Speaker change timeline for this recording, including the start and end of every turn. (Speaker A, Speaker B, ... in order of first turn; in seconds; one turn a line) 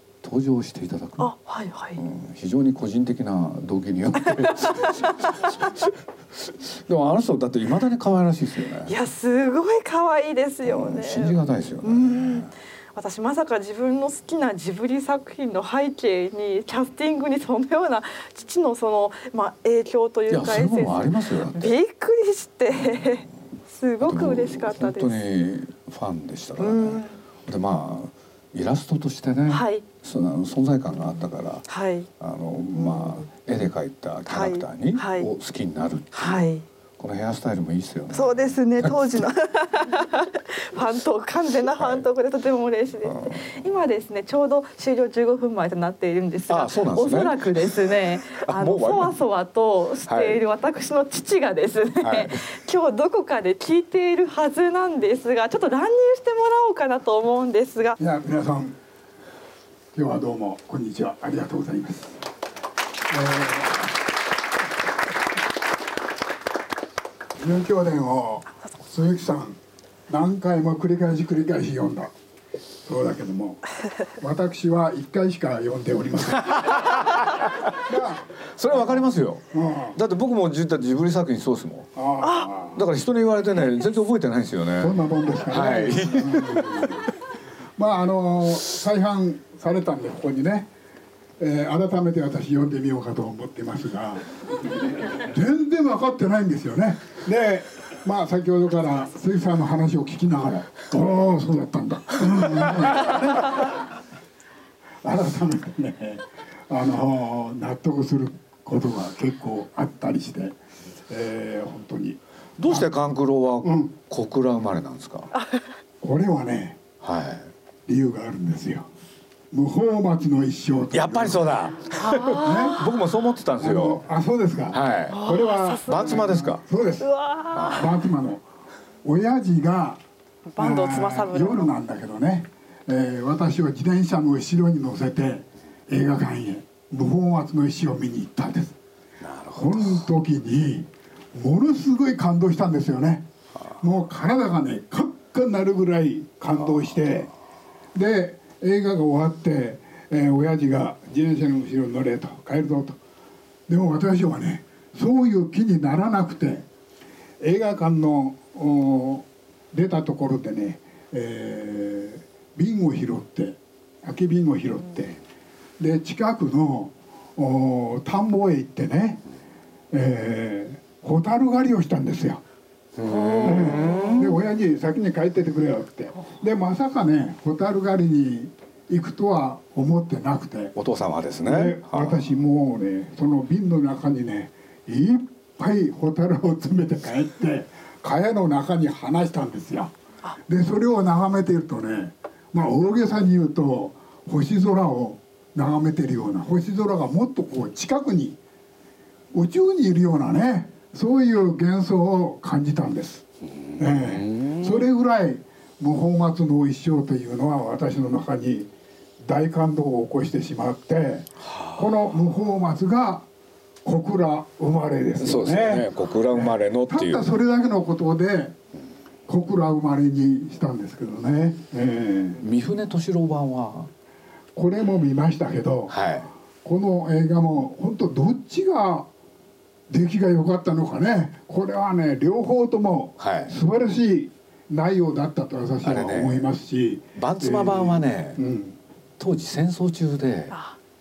Speaker A: 0.2-1.3
Speaker B: 1.2-2.0
Speaker A: 2.0-8.9
Speaker B: 8.9-25.2
Speaker A: 10.6-12.5
Speaker A: 20.3-21.7
Speaker A: 24.0-31.6
Speaker B: 26.6-27.2
Speaker B: 29.5-29.8
Speaker B: 31.7-32.1
Speaker A: 32.2-36.4
Speaker B: 32.7-33.2
Speaker B: 34.3-35.3
Speaker B: 36.1-36.6
Speaker A: 37.0-39.3
Speaker B: 38.1-58.0
Speaker A: 41.8-42.0
Speaker A: 43.0-43.6
Speaker A: 46.5-49.1
Speaker A: 50.1-50.4
Speaker A: 52.0-52.5
Speaker C: 58.0-58.8
Speaker C: 59.9-62.1
Speaker C: 63.1-63.9
Speaker C: 67.4-69.6
Speaker C: 70.1-72.1
Speaker C: 72.8-73.6
Speaker C: 74.2-76.8
Speaker A: 76.5-77.8
Speaker C: 77.8-80.0
Speaker A: 78.4-81.9
Speaker C: 82.0-82.8
Speaker B: 82.2-82.5
Speaker A: 82.7-87.0
Speaker C: 84.8-87.0
Speaker C: 87.8-90.7
Speaker C: 91.4-94.3
Speaker C: 95.2-103.7
Speaker C: 105.0-110.6
Speaker C: 111.1-113.0
Speaker A: 112.6-115.3
Speaker C: 113.6-113.9
Speaker B: 115.3-115.6
Speaker C: 116.0-116.8
Speaker A: 117.0-117.5
Speaker C: 117.8-118.9
Speaker C: 119.5-121.5
Speaker A: 120.9-124.0
Speaker B: 121.9-122.9
Speaker C: 122.4-122.8
Speaker C: 123.6-127.0
Speaker A: 124.7-125.2
Speaker B: 125.1-126.4
Speaker A: 125.8-126.6
Speaker B: 127.0-127.9
Speaker A: 127.5-127.9
Speaker C: 127.7-128.4
Speaker C: 129.0-130.0
Speaker B: 130.5-131.7
Speaker C: 130.6-138.8
Speaker A: 139.2-140.1
Speaker C: 139.5-143.3
Speaker C: 143.8-147.3
Speaker A: 146.6-147.1
Speaker C: 147.9-153.0
Speaker C: 153.7-156.7
Speaker C: 157.4-165.2
Speaker C: 165.8-169.2
Speaker C: 169.9-172.4
Speaker A: 172.9-174.4
Speaker B: 173.1-174.3
Speaker C: 173.4-180.7
Speaker A: 180.7-182.3
Speaker C: 181.4-189.9
Speaker C: 190.5-198.4
Speaker C: 199.3-203.2
Speaker A: 203.4-204.9
Speaker C: 203.8-208.7
Speaker C: 209.2-213.3
Speaker A: 211.4-211.9
Speaker C: 213.8-218.6
Speaker A: 215.2-217.3
Speaker C: 219.3-222.4
Speaker A: 222.4-223.9
Speaker C: 224.5-226.0
Speaker A: 225.9-226.3
Speaker C: 226.6-229.1
Speaker C: 229.9-238.8
Speaker A: 233.2-233.6
Speaker A: 235.8-236.5
Speaker A: 237.2-238.4
Speaker A: 239.2-240.6
Speaker B: 240.5-240.8